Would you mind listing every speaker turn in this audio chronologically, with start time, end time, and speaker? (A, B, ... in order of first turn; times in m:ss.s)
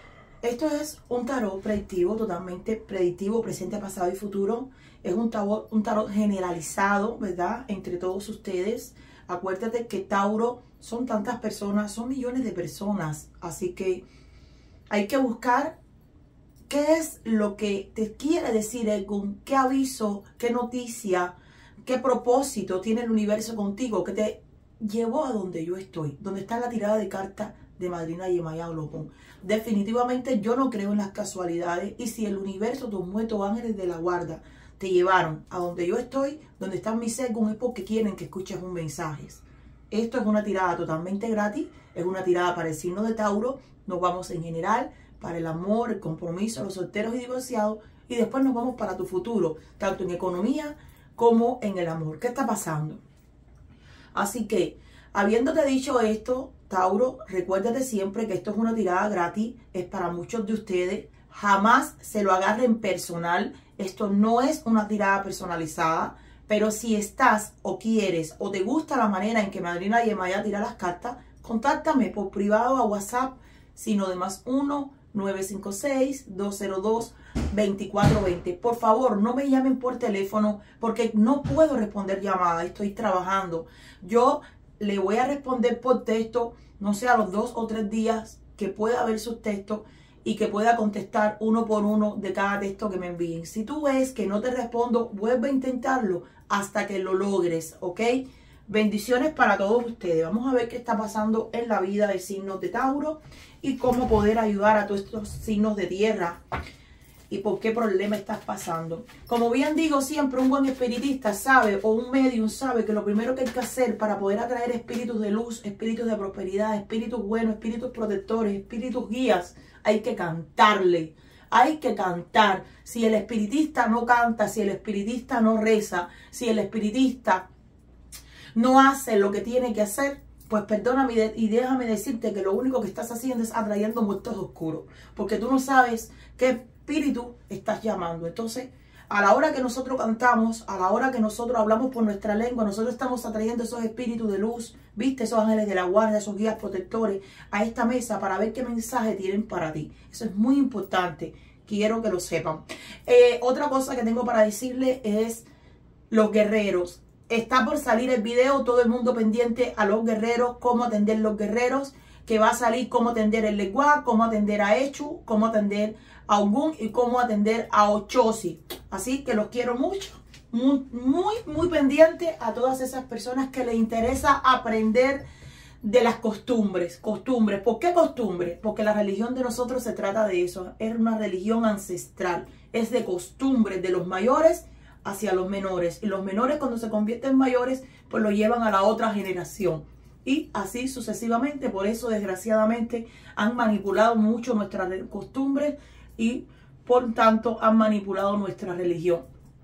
0:00.4-0:14.0 A
0:14.9-0:15.8 A
0:16.7-0:21.3 A
0:21.8-0:53.0 A
0:54.1-1:46.4 A
1:47.3-2:07.5 A
2:08.5-2:35.4 A
2:36.1-2:55.2 A
2:55.8-3:19.2 A